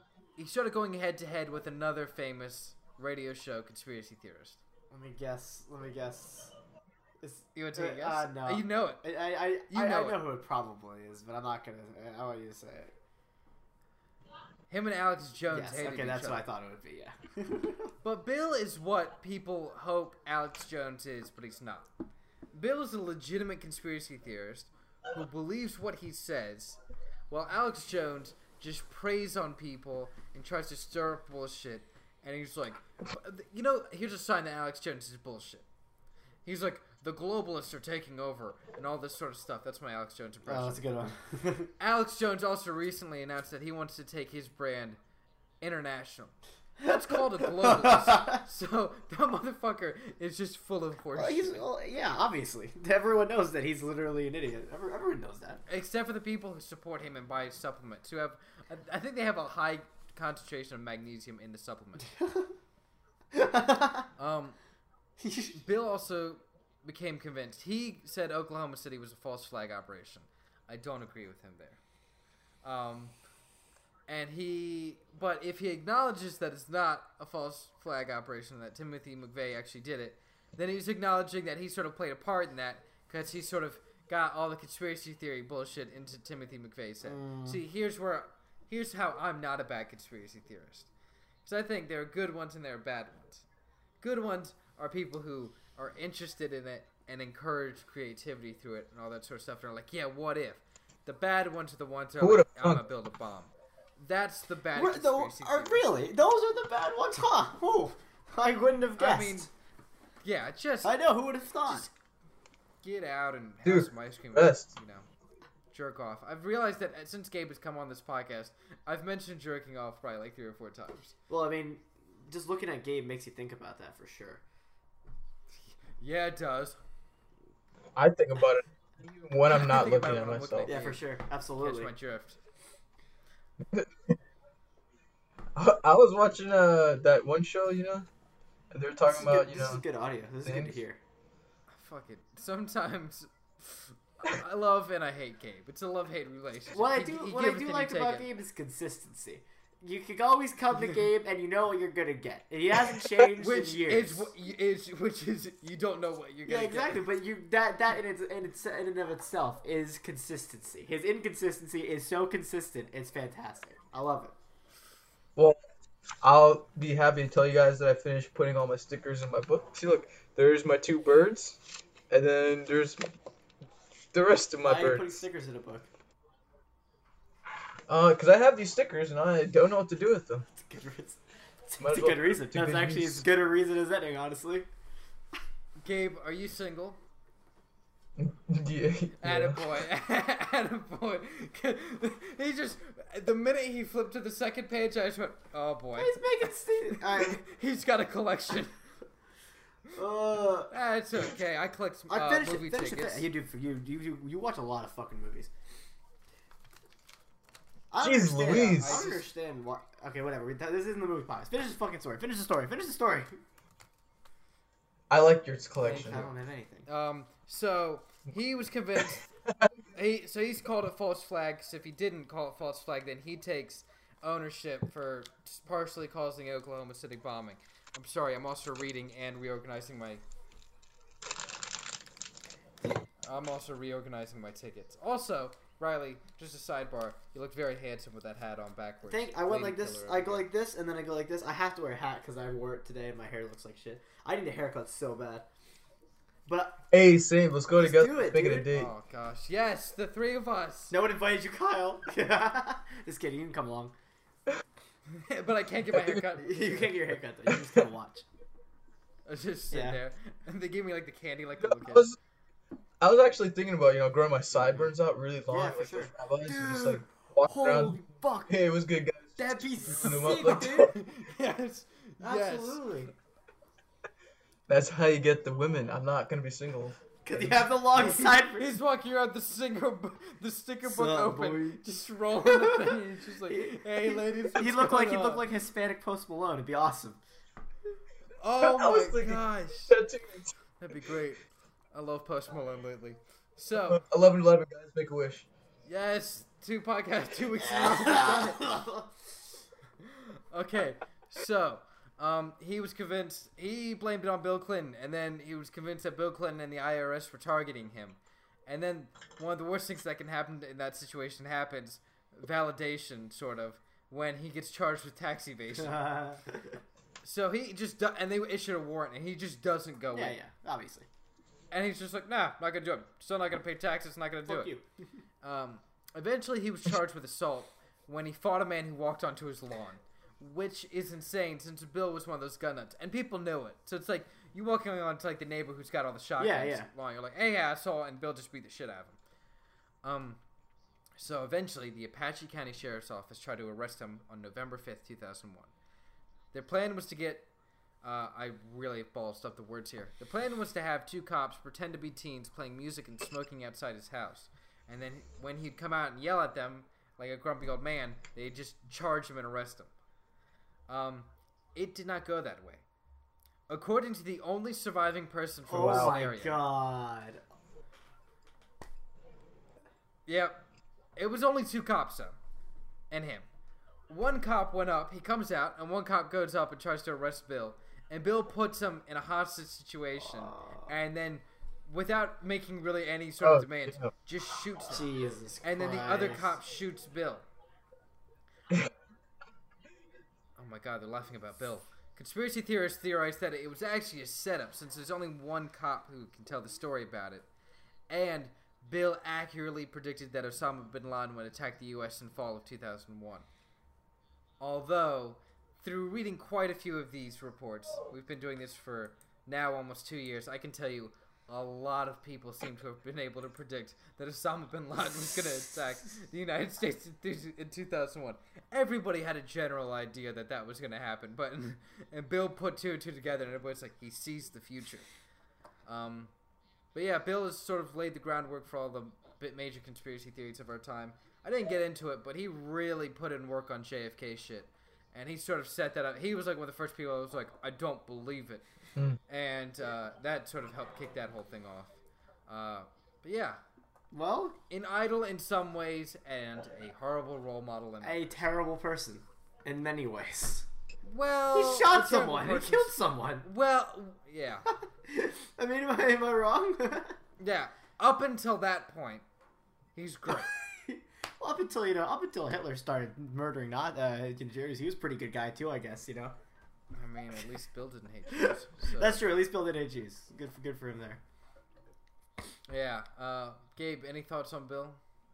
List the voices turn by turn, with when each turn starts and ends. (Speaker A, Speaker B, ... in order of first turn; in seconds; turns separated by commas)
Speaker A: 0.4-4.6, Speaker B: 4.9-6.5, Speaker B: 7.2-12.9, Speaker A: 7.5-9.0, Speaker A: 9.7-10.2, Speaker A: 14.7-16.4, Speaker B: 15.5-17.9, Speaker A: 18.0-21.9, Speaker A: 22.5-35.6, Speaker A: 36.4-40.8, Speaker B: 40.5-41.7, Speaker A: 41.8-45.0, Speaker A: 45.6-51.6, Speaker B: 46.8-48.4, Speaker B: 51.1-55.6, Speaker A: 55.7-62.1, Speaker B: 62.0-62.5, Speaker B: 63.3-64.1, Speaker A: 64.2-64.6, Speaker B: 65.2-65.5, Speaker A: 65.5-71.8, Speaker A: 72.6-73.1, Speaker A: 74.1-90.9, Speaker B: 87.0-87.6, Speaker A: 91.4-93.4, Speaker A: 94.0-105.8, Speaker C: 102.2-102.8, Speaker B: 104.7-109.5, Speaker A: 109.0-109.5, Speaker A: 110.2-110.9, Speaker B: 110.8-111.9, Speaker A: 111.7-111.9, Speaker A: 112.8-115.1, Speaker C: 113.6-114.7, Speaker A: 115.7-121.1, Speaker B: 121.3-124.4, Speaker A: 126.0-126.8, Speaker C: 128.0-130.7, Speaker A: 129.5-131.0, Speaker B: 130.6-131.9, Speaker A: 131.6-132.4, Speaker C: 133.7-134.1, Speaker C: 135.6-138.1, Speaker C: 138.7-139.8, Speaker B: 139.1-141.0, Speaker C: 140.4-140.8, Speaker A: 141.7-148.3, Speaker B: 146.7-154.3, Speaker A: 153.3-157.0, Speaker B: 156.4-164.3, Speaker C: 166.2-173.0, Speaker C: 174.1-175.2, Speaker B: 174.6-175.9, Speaker C: 177.9-180.4, Speaker B: 180.6-184.7, Speaker C: 181.8-183.2, Speaker A: 185.8-187.0, Speaker C: 188.2-189.7, Speaker A: 189.2-196.2, Speaker B: 196.0-197.4, Speaker A: 196.9-198.8, Speaker B: 199.9-200.7, Speaker A: 200.7-203.2, Speaker B: 202.1-205.5, Speaker B: 207.9-213.3, Speaker C: 208.0-209.0, Speaker A: 208.4-209.2, Speaker C: 215.1-216.2, Speaker B: 215.8-216.9, Speaker A: 215.8-216.3, Speaker A: 216.8-219.3, Speaker A: 219.9-230.2, Speaker A: 233.2-240.5, Speaker B: 239.0-245.5, Speaker B: 246.5-246.8, Speaker C: 246.9-248.9, Speaker B: 247.8-248.7, Speaker A: 248.7-250.9, Speaker B: 250.9-253.9, Speaker A: 255.1-257.0, Speaker C: 255.9-256.2, Speaker B: 256.4-258.2, Speaker A: 259.3-262.1, Speaker B: 259.7-260.0, Speaker C: 261.6-262.2, Speaker C: 263.0-270.9, Speaker B: 265.5-268.6, Speaker B: 269.4-270.9, Speaker A: 270.6-273.0, Speaker B: 272.2-273.1, Speaker C: 274.7-277.6, Speaker B: 277.2-278.7, Speaker A: 277.9-285.5, Speaker B: 280.8-281.8, Speaker B: 282.4-287.2, Speaker A: 288.4-290.0, Speaker C: 288.6-290.5, Speaker A: 290.8-294.0, Speaker C: 293.9-295.5, Speaker A: 295.9-298.8, Speaker B: 297.7-299.1, Speaker A: 300.0-316.1, Speaker B: 315.8-316.6, Speaker A: 317.2-320.4, Speaker B: 320.1-321.1, Speaker A: 321.7-324.7, Speaker B: 324.5-324.8, Speaker A: 325.4-339.2, Speaker B: 336.4-336.9, Speaker A: 340.0-340.4, Speaker A: 341.2-345.7, Speaker A: 346.5-347.5, Speaker A: 348.0-359.9, Speaker A: 360.9-362.8, Speaker A: 363.7-366.6, Speaker B: 365.7-367.4, Speaker C: 365.8-366.2, Speaker A: 370.3-370.6, Speaker A: 371.2-372.4, Speaker A: 373.1-373.5, Speaker A: 374.1-385.1, Speaker B: 380.3-380.9, Speaker C: 383.4-384.1, Speaker B: 384.9-386.5, Speaker A: 385.6-387.5, Speaker A: 390.6-397.5, Speaker A: 398.1-403.5, Speaker A: 404.6-425.1, Speaker A: 425.9-426.3, Speaker A: 426.9-438.6, Speaker A: 439.3-441.9, Speaker A: 442.5-443.6, Speaker B: 444.1-444.6, Speaker A: 444.7-448.4, Speaker B: 448.0-450.7, Speaker A: 451.0-454.7, Speaker B: 451.5-453.5, Speaker B: 454.7-457.2, Speaker A: 457.4-459.2, Speaker A: 459.9-460.5, Speaker B: 460.3-466.4, Speaker A: 466.9-469.2, Speaker B: 468.3-471.2, Speaker A: 472.7-475.0